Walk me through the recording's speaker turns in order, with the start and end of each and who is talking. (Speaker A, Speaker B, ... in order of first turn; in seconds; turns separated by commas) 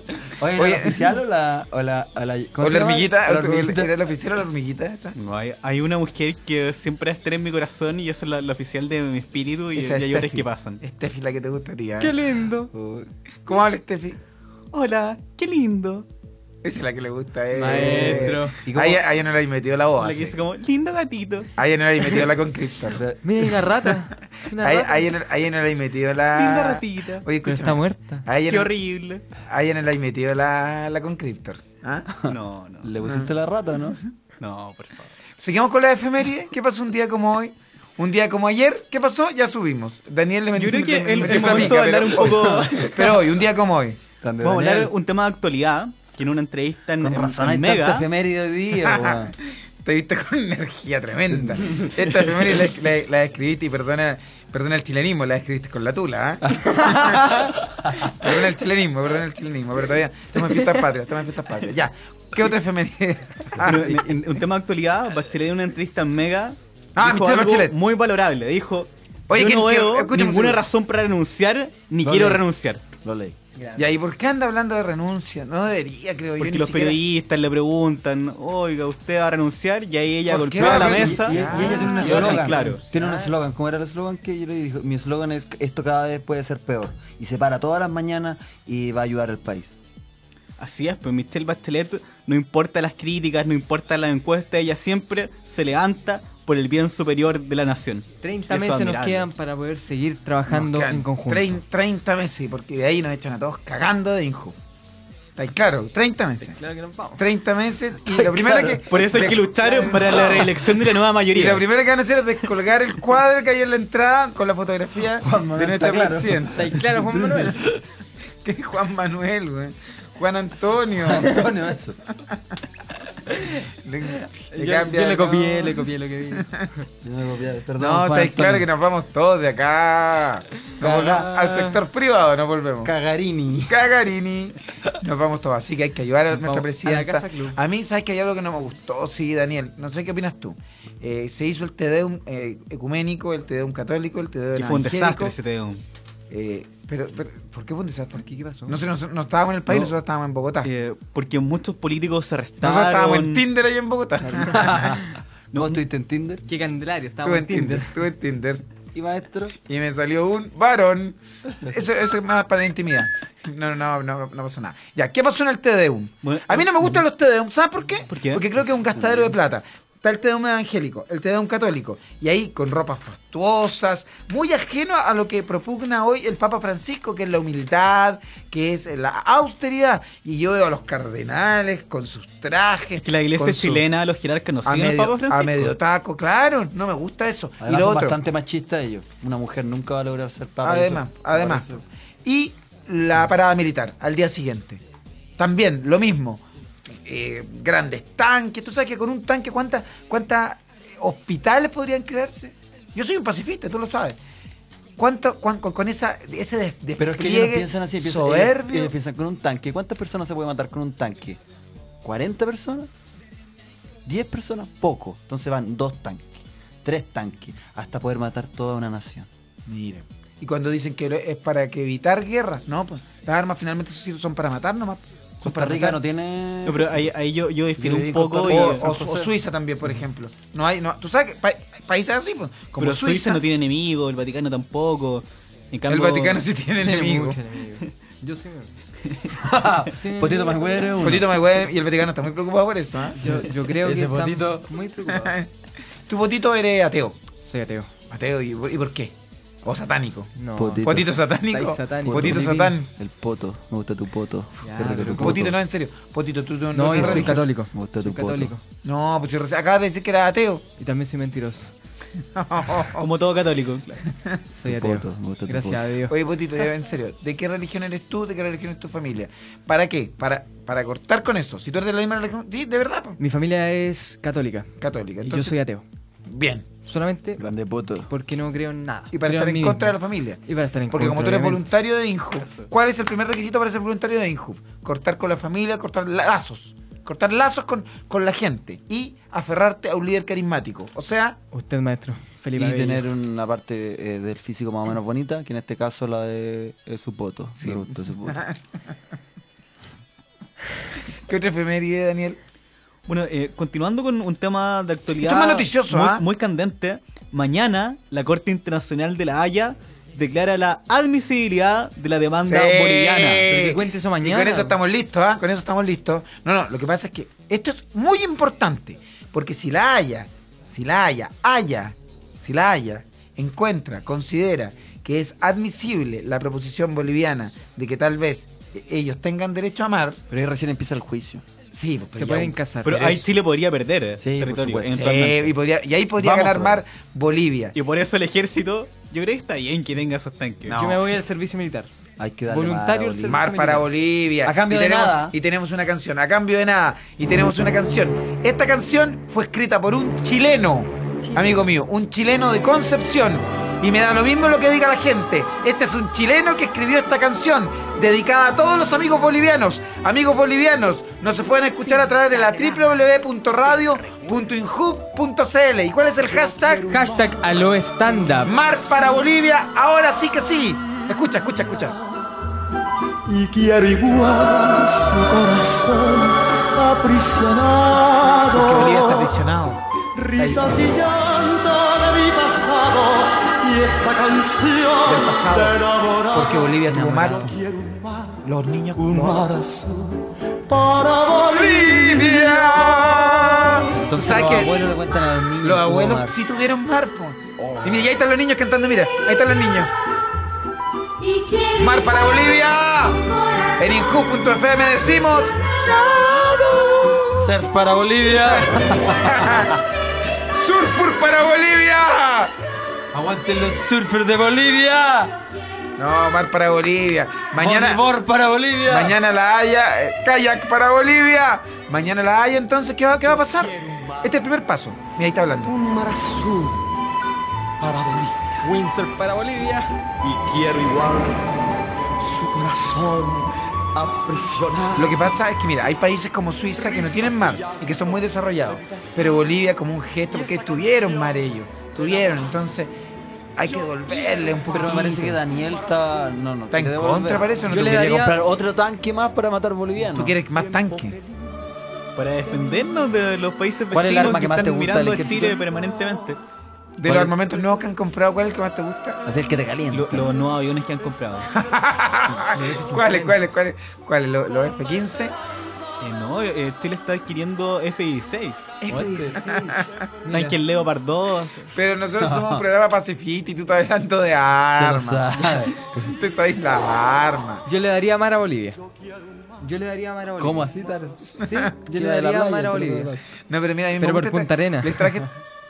Speaker A: 0.2-3.9, Speaker B: 0.6-1.1, Speaker B: 2.6-5.1, Speaker C: 5.2-10.8, Speaker B: 9.8-12.2, Speaker D: 12.0-12.7, Speaker A: 12.7-13.1, Speaker B: 13.5-14.2, Speaker C: 14.7-16.1, Speaker B: 16.6-20.4, Speaker D: 17.5-18.6, Speaker C: 17.8-18.3, Speaker A: 18.7-19.0, Speaker C: 20.0-21.5, Speaker B: 21.6-23.0, Speaker A: 23.0-23.4, Speaker D: 23.2-25.1, Speaker B: 24.4-28.7, Speaker C: 26.3-27.2, Speaker D: 27.4-28.2, Speaker C: 28.5-29.2, Speaker B: 29.4-32.1, Speaker A: 32.2-34.0, Speaker C: 32.3-32.9, Speaker B: 33.0-33.3, Speaker C: 34.4-35.1, Speaker B: 35.4-44.0, Speaker C: 40.6-43.2, Speaker A: 44.2-44.9, Speaker C: 44.4-48.1, Speaker A: 47.0-49.4, Speaker B: 48.8-49.2, Speaker B: 49.8-57.4, Speaker A: 51.3-52.2, Speaker B: 58.0-63.9, Speaker C: 63.6-72.8, Speaker A: 63.7-64.1, Speaker B: 67.0-67.7, Speaker B: 69.3-70.6, Speaker A: 72.0-72.4, Speaker A: 73.0-73.4, Speaker B: 73.8-77.0, Speaker C: 76.4-82.8, Speaker B: 80.3-82.5, Speaker A: 80.6-89.7, Speaker D: 81.5-83.3, Speaker C: 90.6-99.3, Speaker D: 98.2-101.6, Speaker B: 100.5-104.6, Speaker B: 105.4-106.6, Speaker D: 106.5-107.2, Speaker B: 107.2-109.5, Speaker A: 108.1-108.8, Speaker C: 108.9-111.7, Speaker D: 109.6-110.2, Speaker B: 110.0-110.5, Speaker B: 111.3-116.6, Speaker A: 115.1-117.8, Speaker D: 116.5-117.6, Speaker B: 118.4-121.3, Speaker A: 121.0-122.0, Speaker B: 123.8-126.7, Speaker D: 124.5-126.7, Speaker A: 127.0-128.7, Speaker B: 127.8-132.9, Speaker A: 130.8-131.4, Speaker A: 132.8-133.8, Speaker B: 133.7-145.3, Speaker D: 136.3-137.6, Speaker C: 144.6-145.8, Speaker B: 146.3-150.7, Speaker D: 148.2-148.8, Speaker C: 150.6-153.5, Speaker B: 152.6-155.0, Speaker A: 154.6-155.0, Speaker C: 155.5-155.8, Speaker A: 155.5-156.4, Speaker D: 156.5-157.9, Speaker B: 157.2-158.7, Speaker A: 158.9-159.6, Speaker B: 159.7-183.8, Speaker C: 166.2-166.9, Speaker C: 168.1-168.4, Speaker A: 168.6-169.4, Speaker C: 183.0-185.8, Speaker B: 184.7-188.2, Speaker A: 187.6-191.8, Speaker B: 190.6-191.7, Speaker B: 192.2-194.8, Speaker B: 195.4-204.2, Speaker B: 205.0-208.9, Speaker A: 207.0-211.4, Speaker A: 212.0-212.9, Speaker A: 214.1-219.3, Speaker B: 219.7-226.0, Speaker A: 225.4-227.1, Speaker C: 226.7-228.8, Speaker A: 227.8-229.3, Speaker B: 228.5-233.4, Speaker C: 232.8-236.5, Speaker B: 235.9-237.4, Speaker D: 236.8-238.8, Speaker A: 239.4-241.5, Speaker D: 239.9-241.0, Speaker B: 241.0-243.3, Speaker D: 243.2-245.4, Speaker A: 243.2-244.7, Speaker B: 245.1-245.5, Speaker B: 246.1-247.2, Speaker D: 247.4-247.9, Speaker B: 248.1-249.1, Speaker B: 249.6-252.9, Speaker D: 250.4-252.8, Speaker A: 250.6-251.2, Speaker A: 252.0-255.6, Speaker D: 254.6-255.5, Speaker B: 254.9-257.5, Speaker D: 256.7-258.6, Speaker A: 256.9-258.5, Speaker B: 258.8-260.6, Speaker D: 260.8-261.7, Speaker B: 262.4-263.1, Speaker C: 262.9-264.0, Speaker D: 264.6-266.1, Speaker A: 264.6-265.8, Speaker B: 266.1-273.2, Speaker D: 273.2-274.7, Speaker B: 274.8-275.6, Speaker D: 275.2-275.9, Speaker B: 276.3-276.7, Speaker D: 276.8-277.4, Speaker A: 277.4-278.1, Speaker D: 278.1-279.9, Speaker B: 279.1-291.4, Speaker D: 280.5-281.7, Speaker D: 291.5-293.1, Speaker A: 292.6-298.5, Speaker B: 297.6-298.6, Speaker B: 301.3-302.4, Speaker C: 303.1-313.5, Speaker B: 305.2-306.2, Speaker B: 312.4-330.2, Speaker D: 313.4-314.8, Speaker A: 330.3-331.4, Speaker B: 331.7-332.6, Speaker D: 332.1-333.1, Speaker C: 332.8-335.5, Speaker A: 334.2-335.3, Speaker B: 335.0-337.8, Speaker A: 336.2-336.8, Speaker C: 337.8-340.8, Speaker B: 340.7-341.1, Speaker D: 340.7-341.9, Speaker A: 342.2-343.6, Speaker D: 342.5-343.9, Speaker B: 343.3-366.9, Speaker A: 344.4-345.4, Speaker D: 351.2-351.6, Speaker E: 366.3-367.6, Speaker D: 366.9-368.6, Speaker B: 368.4-372.0, Speaker E: 373.3-379.3, Speaker B: 378.5-379.8, Speaker E: 380.1-388.4, Speaker B: 380.4-380.7, Speaker B: 385.1-385.8, Speaker B: 386.3-387.6, Speaker B: 388.4-389.5, Speaker E: 389.0-392.9, Speaker B: 391.5-394.8, Speaker A: 393.9-396.4, Speaker B: 395.6-399.9, Speaker A: 397.6-398.0, Speaker B: 401.7-407.5, Speaker A: 407.3-409.8, Speaker B: 409.0-409.8, Speaker B: 410.5-412.5, Speaker A: 413.1-415.4, Speaker B: 416.0-418.0, Speaker A: 417.6-419.2, Speaker B: 418.9-425.7, Speaker E: 423.4-424.3, Speaker E: 425.6-426.9, Speaker E: 427.8-429.0, Speaker D: 428.7-429.8, Speaker E: 430.2-431.5, Speaker E: 432.2-435.4, Speaker B: 435.0-442.9, Speaker E: 436.7-439.5, Speaker E: 440.3-442.6, Speaker B: 443.6-445.4, Speaker E: 443.6-446.2, Speaker A: 444.7-450.4, Speaker B: 446.7-448.2, Speaker D: 447.7-448.4, Speaker B: 450.1-451.1, Speaker E: 450.5-451.7, Speaker C: 452.2-456.4, Speaker A: 453.9-455.6, Speaker B: 457.0-459.2, Speaker A: 457.1-457.4, Speaker A: 459.2-460.3, Speaker C: 459.9-461.5, Speaker B: 461.5-465.3, Speaker C: 462.6-463.4, Speaker C: 466.0-469.3, Speaker D: 468.8-470.6, Speaker B: 469.3-469.8, Speaker C: 470.3-471.7, Speaker B: 471.7-477.6, Speaker A: 472.2-472.6, Speaker A: 474.7-476.0, Speaker D: 477.7-478.8, Speaker D: 479.6-480.7, Speaker A: 480.4-483.2, Speaker D: 481.4-483.1, Speaker B: 481.4-481.7, Speaker B: 483.5-485.3, Speaker D: 484.0-485.2